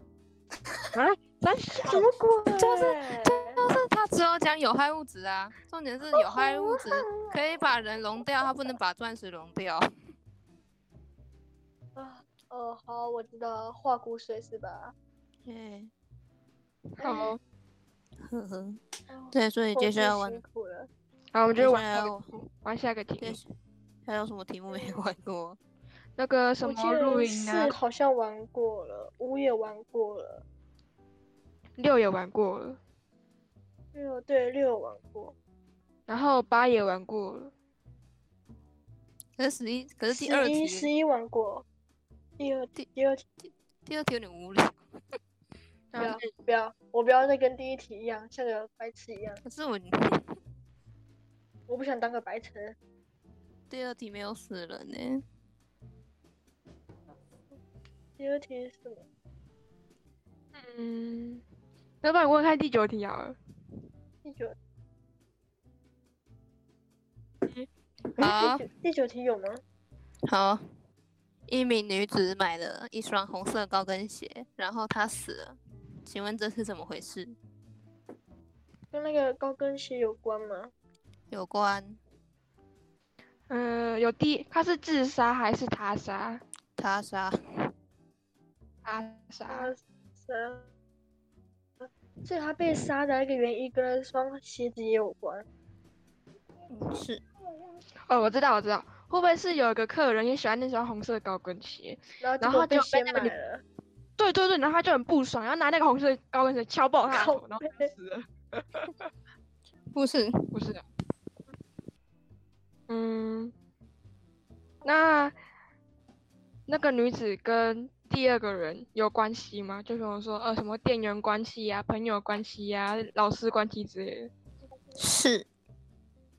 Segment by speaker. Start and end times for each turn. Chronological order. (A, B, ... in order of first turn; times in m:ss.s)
0:00.9-0:02.1 A
0:01.8-0:03.6 B
0:02.6-0:09.9 C
0:06.1-0:07.6 B
0:12.0-0:14.9 B
0:15.4-0:15.9 C
0:17.0-0:17.4 A
0:17.0-0:17.3 B
0:18.2-0:20.4 C
0:19.1-0:20.9 B
0:21.3-0:23.4 A
0:21.6-0:22.3 C
0:23.2-0:23.5 C
0:24.0-0:25.6 C
0:24.7-0:25.0 B
0:26.2-0:27.8 A
0:26.6-0:30.4 B
0:31.8-0:32.8 A
0:33.9-0:35.3 B
0:36.1-0:37.5 A
0:39.4-0:40.9 C
0:40.1-0:41.6 B
0:42.4-0:43.2 B
0:43.8-0:44.8 C
0:45.9-0:46.3 A
0:46.0-0:49.4 B
0:49.4-0:50.4 C
0:51.7-0:52.8 B
0:53.7-0:55.2 C
0:58.2-0:59.0 B
1:00.6-1:01.4 A
1:02.0-1:03.4 A
1:04.2-1:04.6 B
1:08.2-1:08.6 C
1:08.2-1:09.6 B
1:10.2-1:10.6 C
1:11.5-1:17.3 C
1:18.9-1:20.7 B
1:21.3-1:22.0 C
1:23.5-1:26.4 A
1:26.8-1:27.7 C
1:28.8-1:29.7 A
1:29.5-1:30.7 B
1:32.2-1:35.4 B
1:36.7-1:37.2 C
1:38.1-1:43.3 A
1:42.2-1:43.6 B
1:44.2-1:49.0 A
1:47.1-1:47.9 B
1:49.9-1:50.5 C
1:50.5-1:50.8 A
1:52.9-1:53.5 A
1:54.8-1:55.3 A
1:56.7-2:04.3 A
2:05.0-2:05.5 C